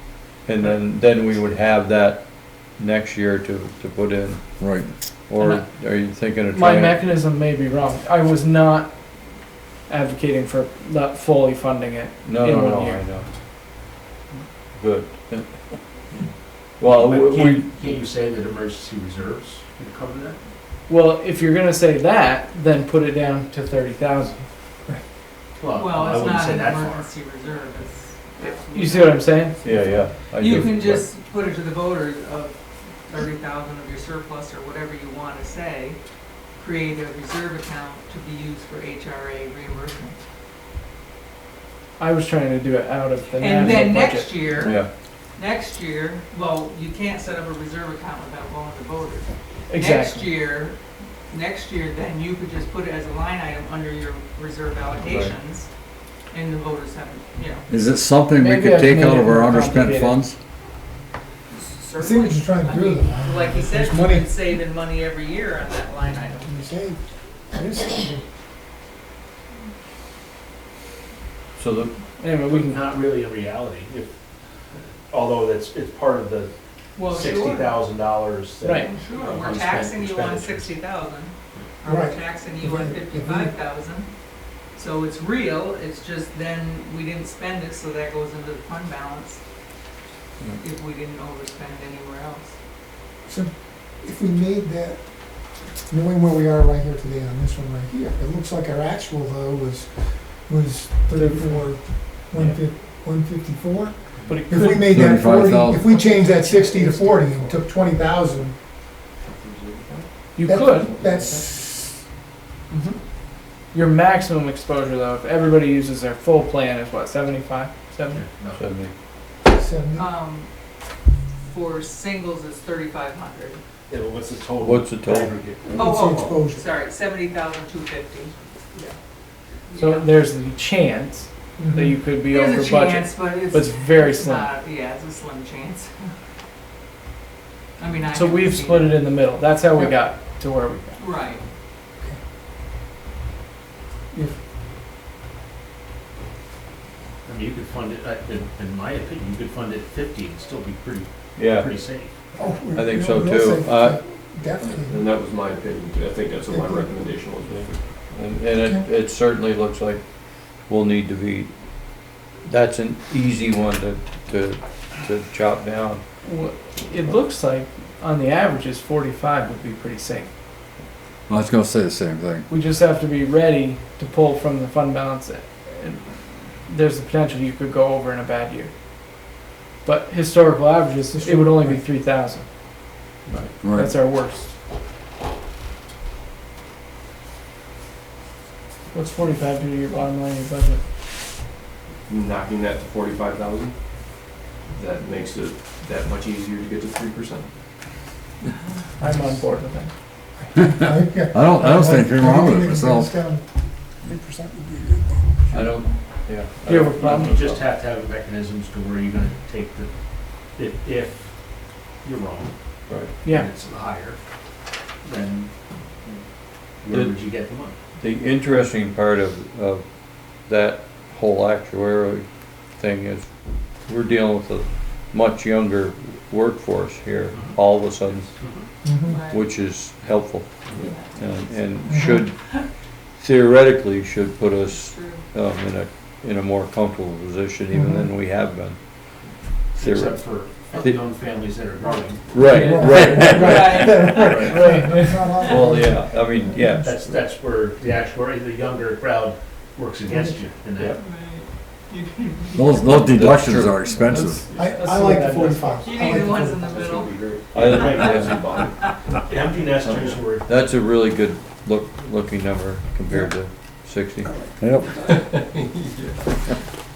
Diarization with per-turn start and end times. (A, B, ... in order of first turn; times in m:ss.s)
0:00.5-0:04.6 A
0:04.6-0:04.9 B
0:05.3-0:07.1 A
0:05.4-0:05.7 C
0:06.5-0:09.0 C
0:09.9-0:13.0 C
0:12.2-0:13.3 A
0:14.7-0:16.0 A
0:16.8-0:18.0 A
0:16.8-0:20.4 D
0:20.9-0:24.5 C
0:25.6-0:27.1 D
0:25.7-0:36.0 E
0:28.4-0:29.6 C
0:29.6-0:31.1 A
0:36.6-0:40.2 E
0:42.0-0:44.8 C
0:43.4-0:44.8 E
0:44.6-0:44.9 A
0:45.4-0:50.8 E
0:49.7-0:50.3 C
0:51.3-0:55.7 E
0:55.0-0:55.4 A
0:56.3-0:57.7 E
0:57.7-1:00.4 B
0:58.4-1:00.2 C
1:01.5-1:06.6 E
1:02.0-1:04.4 F
1:06.4-1:08.2 F
1:11.6-1:11.9 A
1:12.2-1:12.8 C
1:12.4-1:14.1 D
1:14.8-1:16.5 D
1:17.0-1:17.8 E
1:17.0-1:20.8 D
1:18.6-1:18.9 C
1:18.7-1:24.1 E
1:21.8-1:23.5 F
1:24.7-1:29.4 E
1:30.6-1:32.5 E
1:33.2-1:48.6 F
1:41.2-1:41.7 C
1:42.3-1:42.6 C
1:44.3-1:45.1 C
1:44.8-1:45.8 B
1:45.9-1:47.5 C
1:49.2-1:50.1 G
1:50.4-1:50.9 C
1:50.4-1:52.0 F
1:50.9-1:51.4 G
1:52.7-1:53.0 C
1:53.7-1:58.2 C
1:58.1-1:58.6 D
1:58.6-1:58.9 A
1:59.4-2:00.1 F
2:00.0-2:00.5 E
2:01.5-2:03.6 E
2:03.9-2:05.8 D
2:04.6-2:05.4 A
2:05.7-2:06.7 F
2:05.8-2:09.0 E
2:09.7-2:10.1 E
2:09.8-2:14.5 C
2:11.6-2:12.0 F
2:12.3-2:16.1 E
2:17.8-2:19.0 E
2:18.1-2:21.0 C
2:21.0-2:21.4 E
2:27.2-2:32.2 D
2:31.4-2:31.8 A
2:32.4-2:35.0 F
2:32.7-2:34.1 A
2:34.8-2:37.8 G
2:36.5-2:37.0 F
2:37.5-2:46.0 A
2:38.6-2:38.8 F
2:46.2-2:50.3 C
2:51.3-2:52.5 B
2:52.5-2:58.7 C
2:59.8-3:02.4 C
3:01.1-3:01.8 F
3:03.6-3:03.9 B
3:03.6-3:04.5 C
3:08.9-3:10.8 C
3:12.1-3:17.5 G
3:19.0-3:19.6 F
3:19.0-3:19.9 C
3:20.4-3:25.8 F
3:21.3-3:23.1 B
3:25.5-3:27.6 A
3:26.7-3:27.3 C
3:27.0-3:32.5 D
3:32.9-3:33.1 A
3:33.2-3:33.5 C
3:33.2-3:34.2 D
3:35.0-3:36.2 D
3:36.8-3:37.8 D
3:36.9-3:37.2 A
3:38.0-3:48.3 A
3:47.3-3:48.7 D
3:48.8-3:49.2 F
3:49.0-3:49.4 E
3:49.3-3:52.3 A
3:50.8-3:51.1 E
3:51.9-3:52.2 F
3:53.2-4:01.0 A
3:54.7-3:55.3 E
3:57.7-3:58.1 F
3:59.8-4:02.4 D
4:02.3-4:04.5 A
4:02.4-4:06.8 F
4:02.5-4:03.1 C
4:03.4-4:04.4 E
4:04.4-4:05.4 C
4:05.5-4:07.2 A
4:05.5-4:05.7 E
4:06.8-4:11.0 D
4:10.1-4:10.4 F
4:11.0-4:13.2 E
4:12.6-4:14.4 B
4:13.1-4:13.9 A
4:14.1-4:15.8 C
4:14.5-4:17.1 F
4:15.8-4:17.2 E
4:16.6-4:18.9 G
4:17.5-4:18.6 D
4:17.5-4:18.5 A
4:18.6-4:18.9 E
4:19.2-4:20.5 D
4:19.8-4:24.4 A
4:24.3-4:25.2 F
4:24.6-4:25.0 B
4:25.0-4:26.4 G